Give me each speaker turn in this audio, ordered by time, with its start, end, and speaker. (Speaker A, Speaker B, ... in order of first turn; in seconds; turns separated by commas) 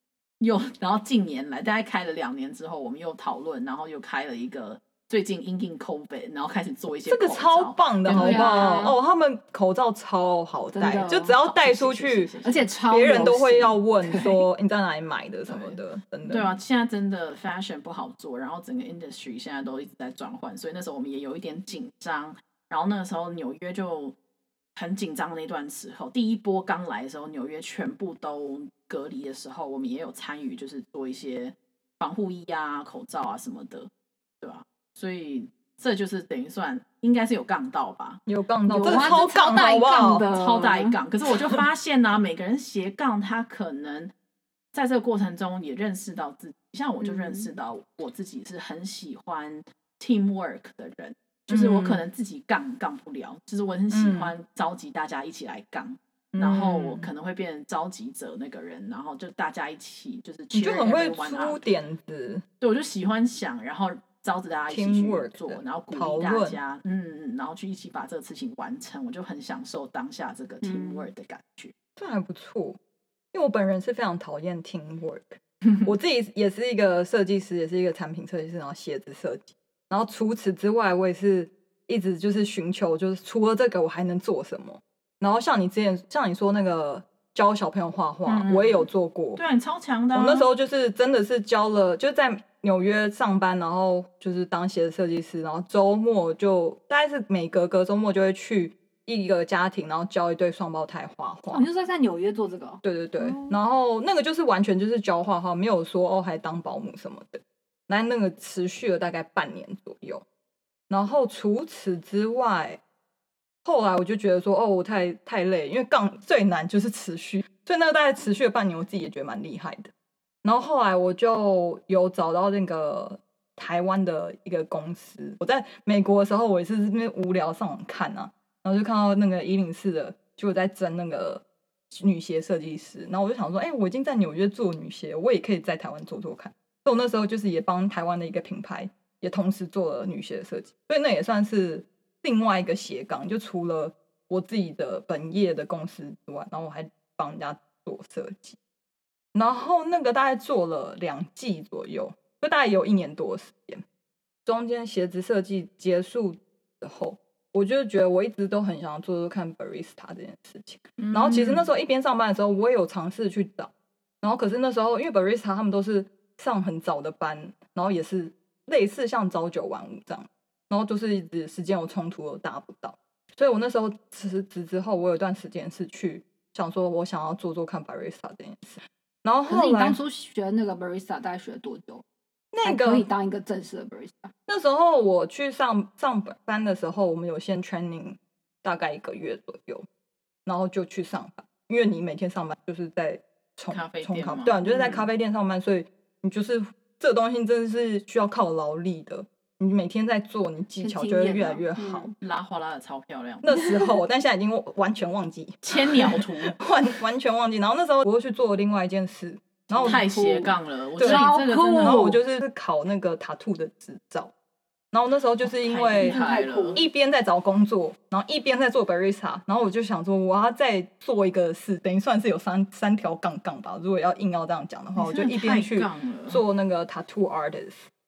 Speaker A: 0.4-8.8, Speaker B: 7.0-12.3, Speaker C: 8.1-8.9, Speaker C: 10.7-11.3, Speaker A: 11.0-12.7, Speaker C: 12.4-14.4, Speaker B: 12.9-16.5, Speaker A: 16.2-24.2, Speaker A: 24.8-33.9, Speaker A: 34.4-38.2, Speaker B: 38.3-40.2, Speaker C: 38.7-41.0, Speaker A: 38.8-39.1, Speaker A: 40.3-44.1, Speaker A: 44.7-61.6, Speaker C: 47.0-47.5, Speaker B: 51.5-52.0, Speaker B: 53.9-54.3, Speaker B: 56.3-57.1, Speaker B: 60.5-62.4, Speaker A: 62.6-71.7, Speaker B: 64.7-66.6, Speaker C: 70.6-71.1, Speaker B: 72.0-72.8, Speaker B: 73.3-89.4, Speaker A: 88.2-90.5, Speaker B: 90.1-101.7, Speaker C: 101.5-103.5, Speaker B: 102.8-110.2, Speaker B: 110.9-112.8, Speaker B: 113.6-119.9, Speaker B: 120.4-148.6, Speaker B: 149.3-153.8, Speaker B: 154.4-180.0, Speaker A: 161.0-161.7, Speaker C: 179.5-182.0, Speaker B: 182.5-183.1, Speaker C: 182.6-184.3, Speaker B: 184.5-189.8, Speaker B: 190.4-202.1, Speaker A: 193.7-194.7, Speaker C: 194.7-195.1, Speaker C: 200.8-202.1, Speaker A: 202.2-203.5, Speaker B: 203.4-210.1, Speaker A: 205.6-206.6, Speaker C: 209.7-212.2, Speaker A: 209.8-212.2, Speaker B: 211.0-214.3, Speaker B: 214.9-216.2, Speaker A: 215.4-216.8, Speaker C: 216.0-216.8, Speaker B: 216.7-227.9, Speaker A: 225.0-226.4